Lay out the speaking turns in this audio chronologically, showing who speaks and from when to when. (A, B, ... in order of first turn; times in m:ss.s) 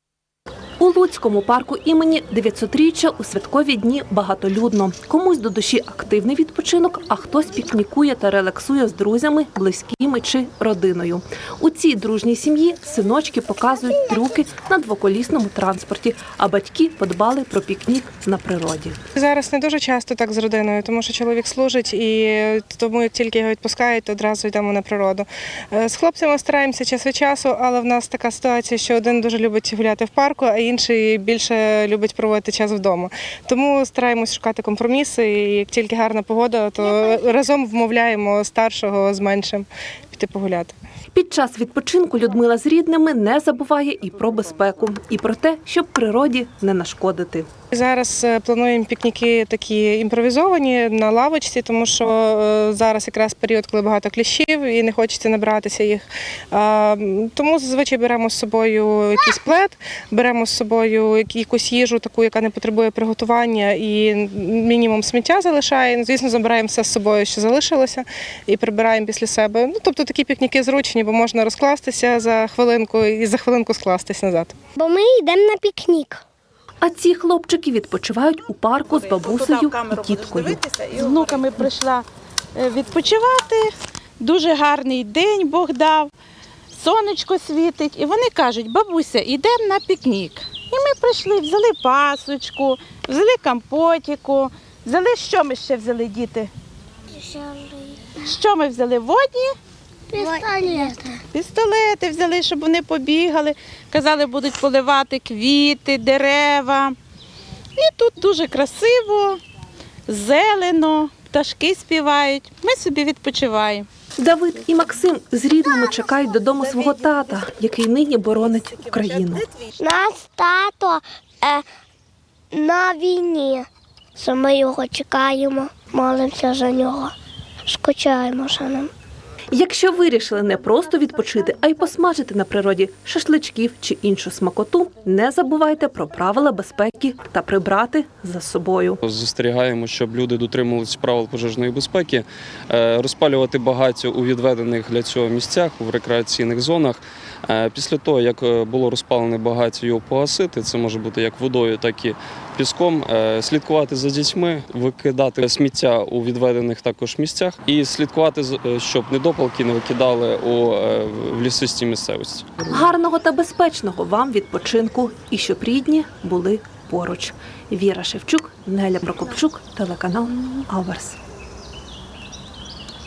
0:00.8-0:19.0 A
0:19.2-0:40.8 B
0:36.8-0:37.2 C
0:41.1-0:47.5 A
0:47.7-1:14.6 B
1:14.8-1:16.2 C
1:16.8-1:21.7 A
1:19.0-1:22.0 D
1:22.6-1:26.1 D
1:26.7-1:36.5 D
1:37.1-1:38.2 C
1:38.2-1:39.6 D
1:40.1-1:41.2 C
1:41.3-1:47.0 D
1:47.8-1:49.4 D
1:50.1-1:53.9 D
1:54.2-1:59.5 A
1:59.8-2:01.7 C
2:02.5-2:07.2 C
2:07.7-2:08.9 C
2:09.5-2:19.0 A
2:19.0-2:42.6 E
2:42.6-2:51.2 A